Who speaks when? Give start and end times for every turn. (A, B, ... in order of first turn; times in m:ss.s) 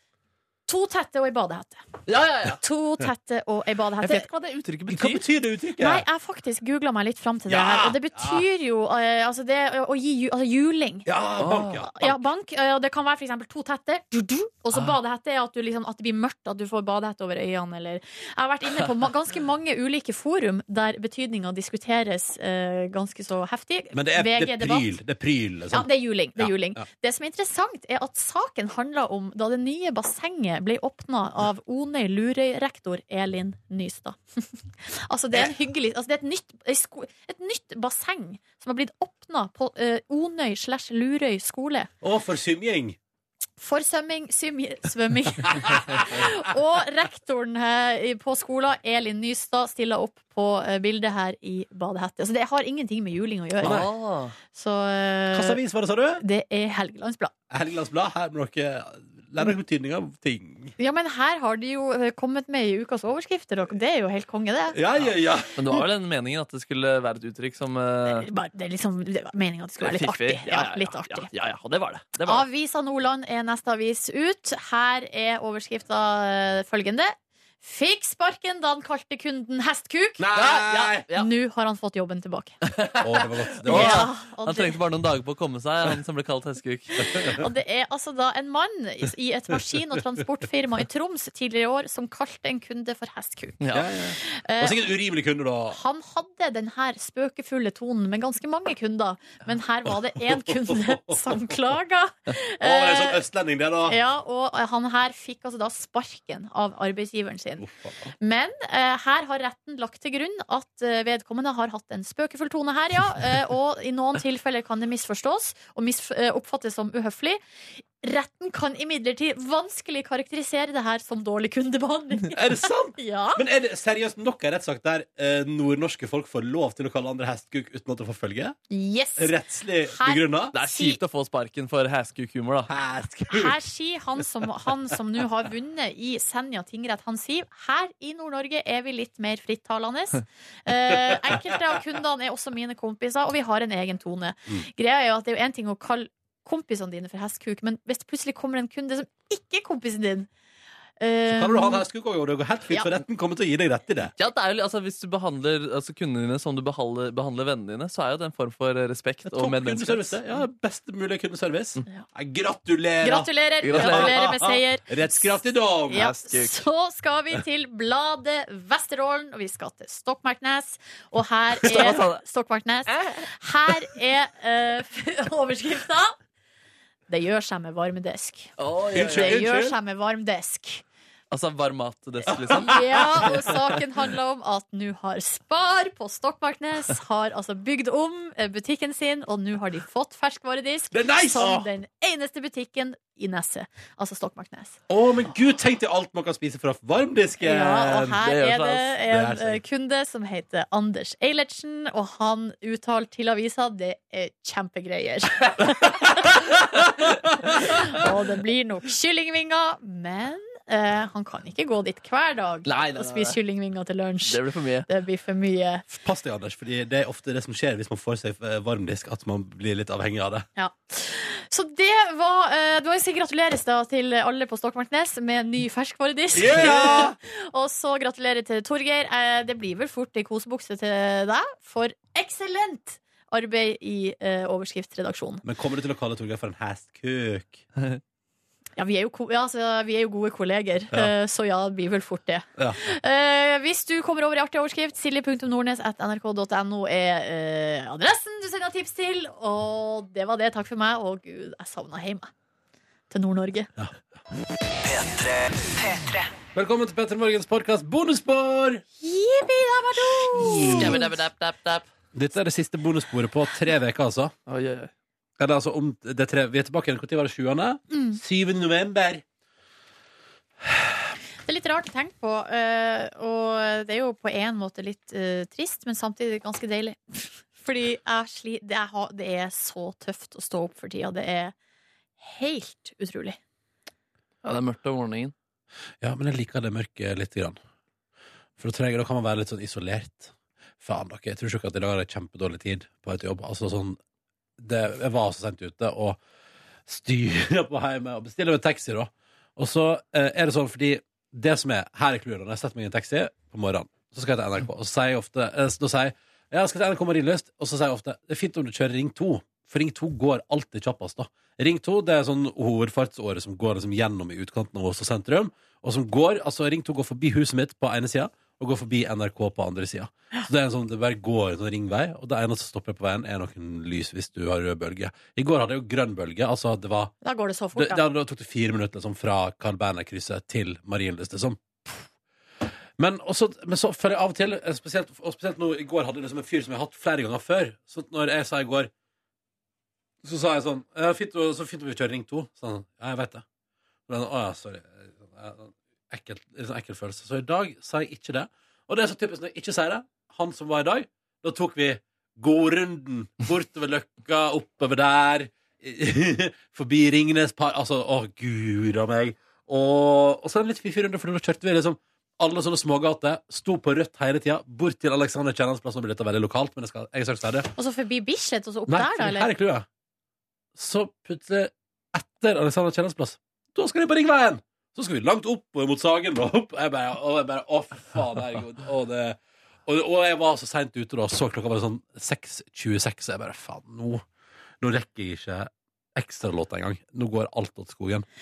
0:00.7-0:01.8 A
0:02.1-0:02.6 B
0:02.6-0:04.3 A
0:04.0-0:05.2 B
0:04.9-0:06.0 C
0:05.8-0:11.1 A
0:07.5-0:08.4 C
0:11.1-0:12.2 C
0:11.4-0:11.8 B
0:11.8-0:24.9 A
0:23.9-0:26.8 C
0:25.7-0:41.9 A
0:42.0-0:43.0 C
0:43.6-0:53.8 A
0:45.5-0:46.3 C
0:53.6-0:53.9 C
0:53.6-0:54.4 B
0:54.5-0:55.6 A
0:55.3-0:56.2 C
0:56.2-0:57.3 A
0:57.5-1:00.8 C
1:00.8-1:04.8 A
1:04.7-1:05.6 C
1:05.6-1:08.3 B
1:08.1-1:11.3 A
1:09.8-1:12.5 B
1:12.2-1:20.2 A
1:20.2-1:21.1 C
1:20.4-1:21.3 B
1:21.1-1:22.6 A
1:22.6-1:27.1 B
1:23.0-1:24.1 C
1:23.7-1:24.8 A
1:27.1-1:27.4 C
1:27.3-1:33.6 A
1:33.6-1:33.9 B
1:33.7-1:35.8 C
1:34.2-1:34.8 A
1:35.7-1:43.2 A
1:39.9-1:41.4 C
1:42.6-1:44.0 C
1:43.9-1:47.6 A
1:47.6-1:48.1 C
1:48.2-1:57.4 A
1:58.0-2:03.4 A
2:02.3-2:08.6 C
2:08.7-2:09.4 A
2:09.2-2:10.5 C
2:09.9-2:11.0 A
2:10.5-2:12.7 B
2:12.7-2:13.6 C
2:13.3-2:30.3 A
2:20.9-2:21.2 C
2:31.0-2:31.8 A
2:31.3-2:34.1 C
2:34.2-2:40.1 B
2:39.2-2:46.1 C
2:43.0-2:56.2 A
2:43.6-2:44.3 B
2:45.9-2:46.6 B
2:51.6-2:52.2 B
2:57.1-3:00.8 A
2:58.6-2:59.4 B
2:58.9-2:59.8 C
3:01.3-3:03.6 B
3:02.3-3:14.8 A
3:02.4-3:03.4 C
3:10.9-3:11.7 C
3:14.9-3:18.2 C
3:17.4-3:26.6 A
3:18.2-3:18.9 B
3:19.1-3:19.6 C
3:27.4-3:35.9 A
3:32.7-3:33.4 B
3:34.3-3:34.9 B
3:35.9-3:40.5 C
3:40.6-3:55.4 A
3:46.3-3:47.2 C
3:55.4-3:57.6 C
3:58.8-4:12.3 A
4:13.1-4:13.7 A
4:16.5-4:18.8 C
4:19.0-4:21.0 A
4:20.4-4:21.0 C
4:20.7-4:21.9 B
4:22.1-4:24.3 C
4:24.5-4:24.9 B
4:25.4-4:29.2 C
4:27.9-4:28.2 A
4:31.5-4:41.5 A
4:42.2-4:43.4 A
4:44.4-4:45.3 B
4:46.0-4:47.6 C
4:48.6-4:54.0 C
4:54.6-4:56.2 C
4:56.9-5:27.1 C
5:27.2-5:28.0 A
5:27.8-5:32.1 C
5:33.0-5:38.9 C
5:40.2-5:43.4 C
5:44.1-6:07.7 C
6:07.8-6:09.5 A
6:08.9-6:09.9 C
6:10.8-6:24.2 C
6:24.8-6:28.3 C